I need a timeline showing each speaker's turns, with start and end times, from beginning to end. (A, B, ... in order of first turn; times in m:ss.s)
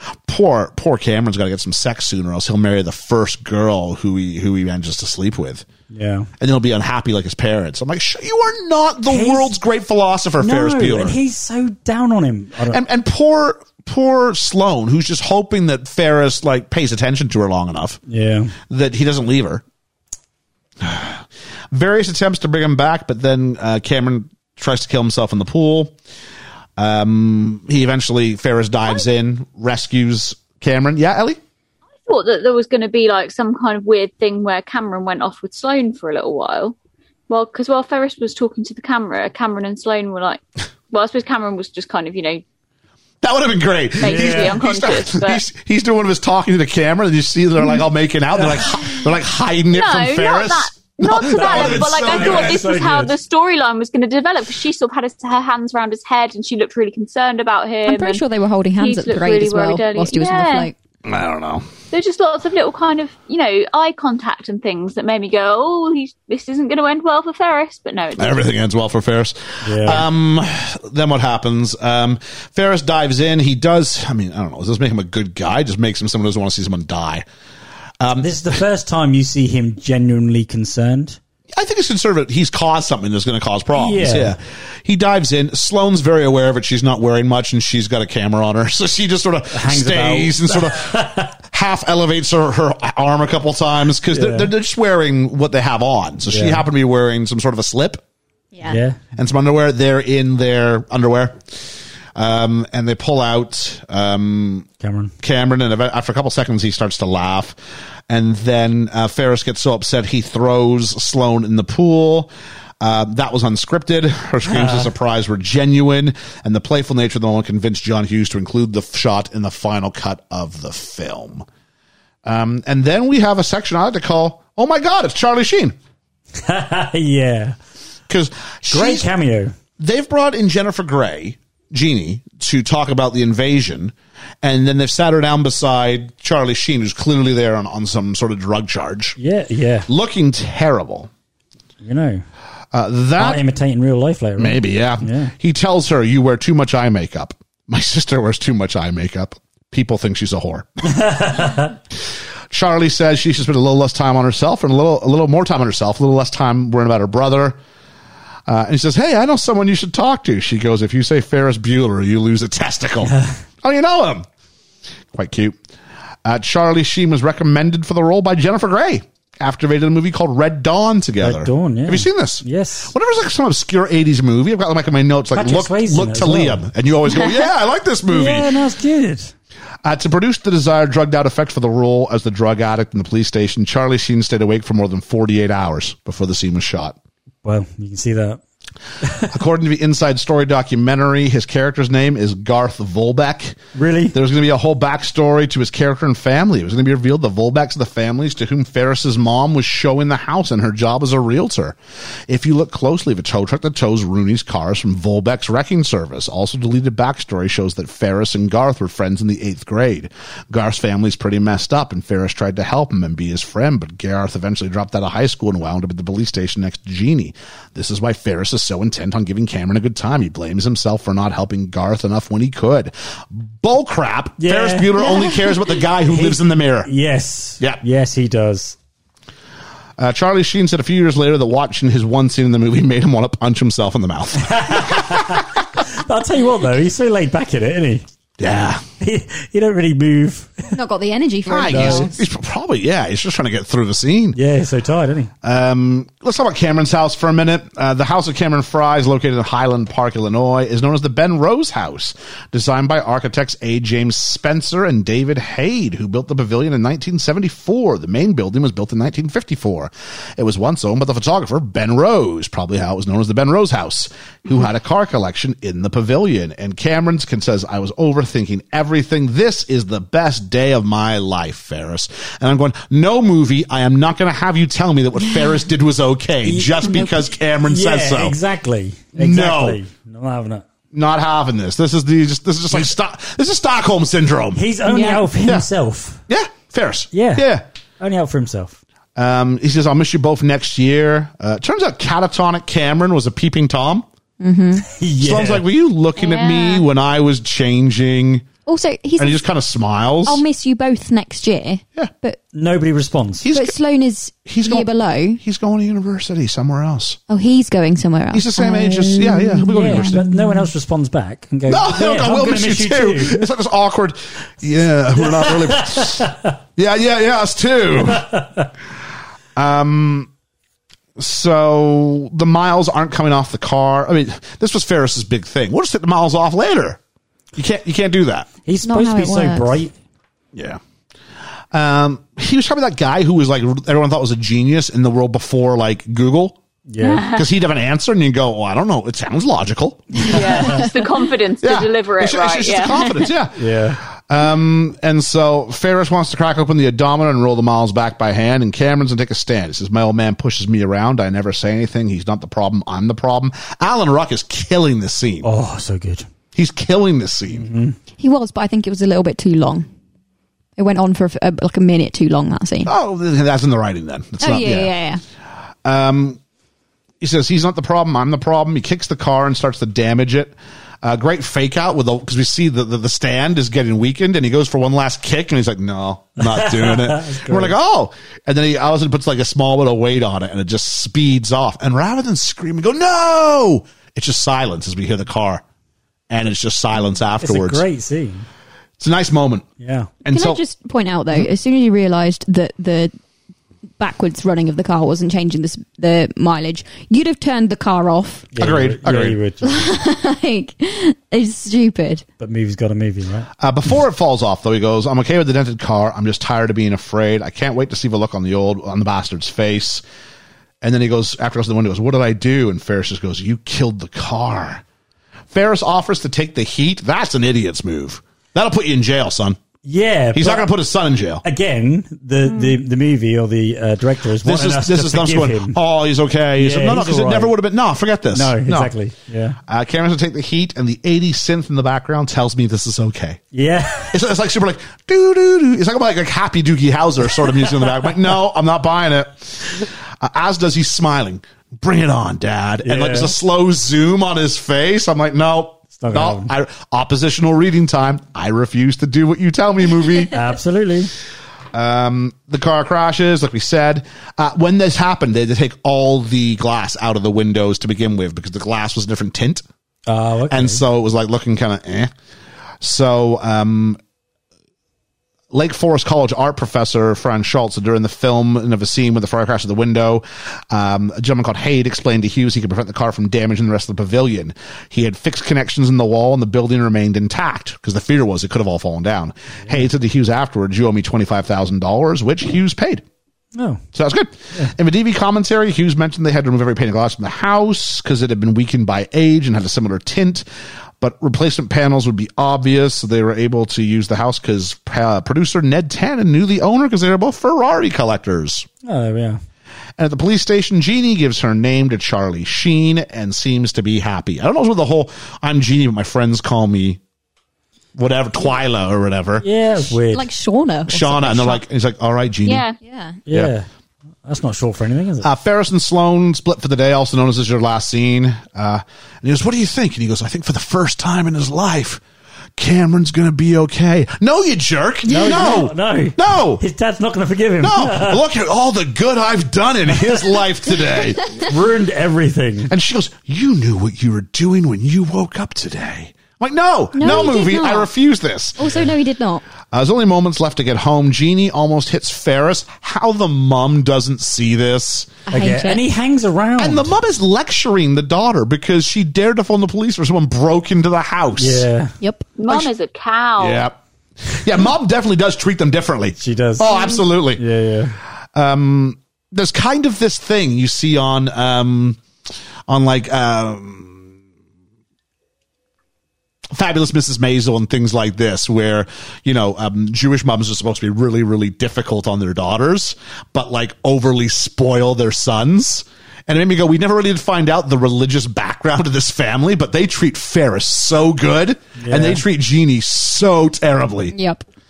0:00.3-0:05.7 A
0:05.9-0:06.3 B
0:06.4-0:11.2 A
0:09.1-0:09.6 B
0:10.4-0:12.8 B
0:12.7-0:18.0 A
0:18.1-0:18.6 B
0:18.7-0:19.6 A
0:20.8-0:26.0 A
0:26.8-0:31.4 A
0:32.1-0:36.8 C
0:37.3-0:42.4 C
0:43.2-0:52.8 A
0:44.0-0:45.4 C
0:44.0-0:44.6 B
0:49.7-0:58.2 C
0:51.2-0:53.2 B
0:57.9-1:00.8 D
0:58.8-1:00.7 C
1:01.0-1:01.7 A
1:01.9-1:08.5 C
1:08.2-1:17.2 A
1:09.6-1:10.1 B
1:18.0-1:18.6 A
1:18.2-1:21.2 B
1:21.5-1:38.0 A
1:23.8-1:24.4 B
1:29.5-1:31.3 B
1:34.1-1:34.5 B
1:36.3-1:36.6 B
1:38.5-1:38.8 D
1:38.7-1:39.0 B
1:39.2-1:41.4 A
1:42.2-1:44.7 A
1:44.8-1:45.1 B
1:45.2-1:47.6 A
1:48.1-2:01.5 A
1:54.4-1:54.9 B
2:02.2-2:05.8 A
2:06.4-2:07.6 B
2:08.1-2:09.1 A
2:08.7-2:09.6 B
2:09.8-2:19.2 A
2:19.2-2:19.9 B
2:19.9-2:21.1 A
2:21.8-2:22.2 B
2:22.7-2:23.4 A
2:23.2-2:25.3 B
2:24.4-2:30.9 A
2:30.9-2:31.7 B
2:32.5-2:37.6 A
2:38.5-2:44.3 A
2:43.0-2:43.4 B
2:45.1-2:45.6 A
2:46.2-2:58.5 A
2:51.2-2:52.9 B
2:55.3-2:56.6 B
2:58.1-2:59.3 B
2:59.8-3:07.0 A
3:07.4-3:08.4 B
3:09.0-3:09.3 B
3:09.3-3:13.6 A
3:13.8-3:14.2 B
3:14.1-3:21.8 A
3:22.3-3:46.9 A
3:44.4-3:45.1 B
3:46.0-3:48.8 B
3:50.0-3:55.5 A
3:54.4-3:58.0 B
3:58.4-3:58.8 A
3:59.0-4:00.8 B
4:00.7-4:02.2 D
4:01.5-4:04.4 A
4:01.7-4:02.2 B
4:04.4-4:05.3 B
4:05.4-4:38.4 A
4:35.2-4:35.6 D
4:36.4-4:40.6 B
4:39.2-4:39.8 A
4:40.9-4:44.6 A
4:44.6-4:46.2 B
4:44.9-4:45.2 D
4:46.3-4:47.6 A
4:47.1-4:47.5 B
4:48.0-4:48.8 B
4:49.2-4:54.1 A
4:54.4-4:54.9 D
4:54.9-4:55.7 B
4:55.2-4:58.5 A
4:56.2-4:56.8 D
4:58.7-4:59.4 D
4:59.2-5:00.4 A
5:00.3-5:02.4 D
5:02.5-5:03.5 B
5:03.4-5:03.8 A
5:03.5-5:05.4 D
5:04.5-5:07.2 A
5:07.3-5:10.7 D
5:08.3-5:10.2 A
5:09.7-5:13.5 B
5:11.7-5:18.3 A
5:15.2-5:16.5 B
5:18.1-5:18.7 B
5:19.6-5:20.3 A
5:21.2-5:27.0 A
5:27.6-5:28.5 A
5:28.7-5:29.9 B
5:28.8-5:29.8 D
5:30.5-5:30.8 A
5:31.7-5:36.6 A
5:36.9-5:37.3 B
5:37.0-5:37.5 C
5:37.3-5:40.8 A
5:40.2-5:43.3 C
5:40.4-5:40.8 B
5:41.6-5:55.5 A
5:43.6-5:44.0 B
5:55.4-5:56.3 B
5:56.5-5:57.7 A
5:57.5-5:58.0 B
5:58.2-5:59.9 D
6:00.8-6:02.9 D
6:02.8-6:04.9 A
6:04.4-6:05.2 D
6:05.8-6:06.4 A
6:07.2-6:25.6 A
6:16.4-6:17.8 B
6:26.3-6:27.8 A
6:27.4-6:28.5 B
6:29.0-6:29.7 A
6:29.8-6:30.1 B
6:30.2-6:30.6 A
6:30.3-6:33.1 D
6:34.0-6:38.5 D
6:38.5-6:39.8 B
6:38.6-6:39.4 A
6:39.6-6:42.2 D
6:42.4-6:43.5 B
6:43.6-6:50.0 A
6:50.8-6:54.8 A
6:55.5-6:59.6 A
6:59.8-7:00.7 B
7:00.3-7:01.4 A
7:01.4-7:05.8 B
7:04.4-7:09.0 A
7:06.6-7:07.6 B
7:08.3-7:09.6 B
7:09.7-7:13.4 A
7:13.5-7:14.2 B
7:14.1-7:30.5 A
7:17.4-7:18.2 B
7:22.8-7:23.3 B
7:26.0-7:26.5 B
7:30.3-7:31.1 B
7:31.7-7:39.6 A
7:40.1-7:40.8 B
7:40.5-7:42.1 A
7:42.8-7:44.0 A
7:45.5-8:03.0 A
8:03.6-8:03.8 B
8:03.9-8:10.5 A
8:11.0-8:18.7 A
8:18.8-8:19.4 B
8:20.0-8:27.0 A
8:28.0-8:29.9 A
8:29.4-8:30.3 B
8:30.1-8:31.6 D
8:30.9-8:32.6 A
8:32.4-8:32.8 C
8:32.8-8:33.2 D
8:33.3-8:33.7 B
8:34.2-8:35.3 B
8:35.2-8:42.0 A
8:42.6-8:46.6 A
8:45.1-8:48.2 B
8:45.1-8:45.6 D
8:47.6-8:51.4 A
8:49.9-8:50.4 B
8:51.3-8:52.7 B
8:52.7-8:58.7 A
8:56.9-8:57.9 D
8:58.6-8:59.4 D
8:58.6-8:58.9 B
8:59.7-9:05.2 A
9:05.3-9:05.8 D
9:05.3-9:06.9 B
9:06.6-9:11.7 A
9:11.4-9:12.0 B
9:12.0-9:12.2 D
9:12.4-9:13.7 C
9:13.4-9:13.8 A
9:14.3-9:17.4 A
9:16.2-9:18.0 B
9:18.4-9:22.0 A
9:22.7-9:24.1 A
9:26.5-9:44.2 A
9:41.8-9:42.2 B
9:44.1-9:44.4 D